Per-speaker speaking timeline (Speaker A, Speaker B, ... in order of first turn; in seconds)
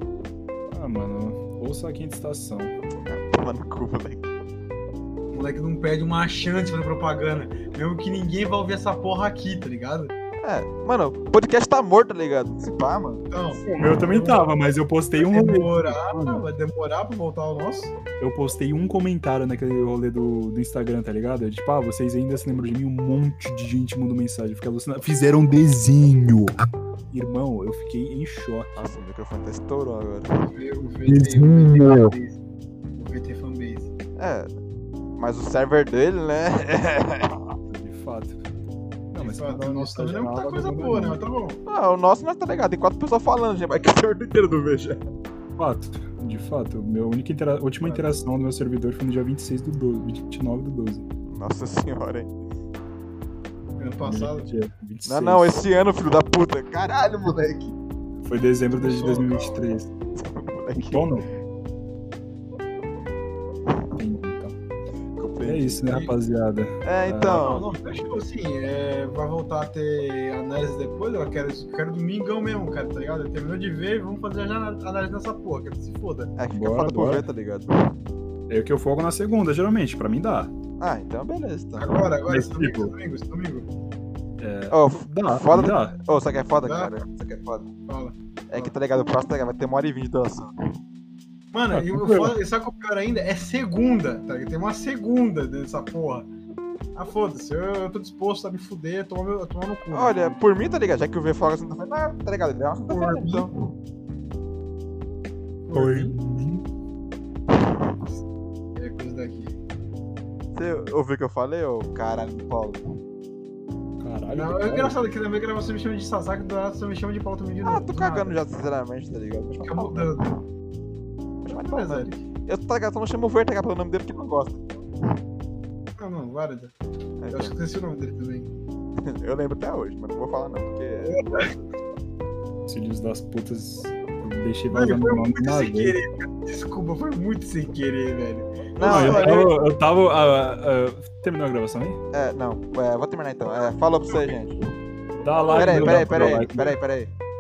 Speaker A: 0.7-2.7, 13.6-16.4, 18.2-26.6, 27.1-28.9, 31.1-32.1, 37.7-38.4, 39.1-41.2, 45.6-51.0, 54.0-55.5, 58.2-59.9, 60.8-61.3, 63.9-64.5, 65.4-68.2, 76.5-77.3, 78.5-80.5, 82.3-82.9, 84.4-86.0, 91.7-92.4, 105.7-106.6, 114.0-115.0, 132.7-136.0, 138.8-142.0, 145.1-146.8
Speaker B: 3.1-4.3, 10.4-13.3, 28.8-30.3, 34.2-34.6, 35.2-37.4, 41.7-45.0, 51.2-52.3, 55.1-57.8, 60.2-61.0, 65.2-65.9, 66.8-67.7, 76.4-77.7, 80.8-82.0, 84.7-87.7, 88.5-90.5, 99.9-103.5, 110.5-112.8, 117.6-120.2, 121.4-124.9, 127.2-127.5, 129.0-131.7, 138.8-139.4, 142.1-144.6, 145.5-147.1
Speaker C: 5.3-10.1, 13.3-14.5, 15.2-17.9, 30.5-32.4, 33.0-33.9, 39.2-41.6, 47.8-48.1, 53.8-54.5, 58.7-59.6, 67.3-76.3, 81.8-83.7, 86.6-86.9, 87.9-88.7, 91.5-96.3, 97.0-100.4, 102.9-103.5, 105.7-106.2, 108.8-109.5, 114.3-118.4, 119.6-120.4, 121.5-122.2, 126.0-126.7, 127.3-128.5, 131.1-131.5, 134.7-139.5, 145.4-146.3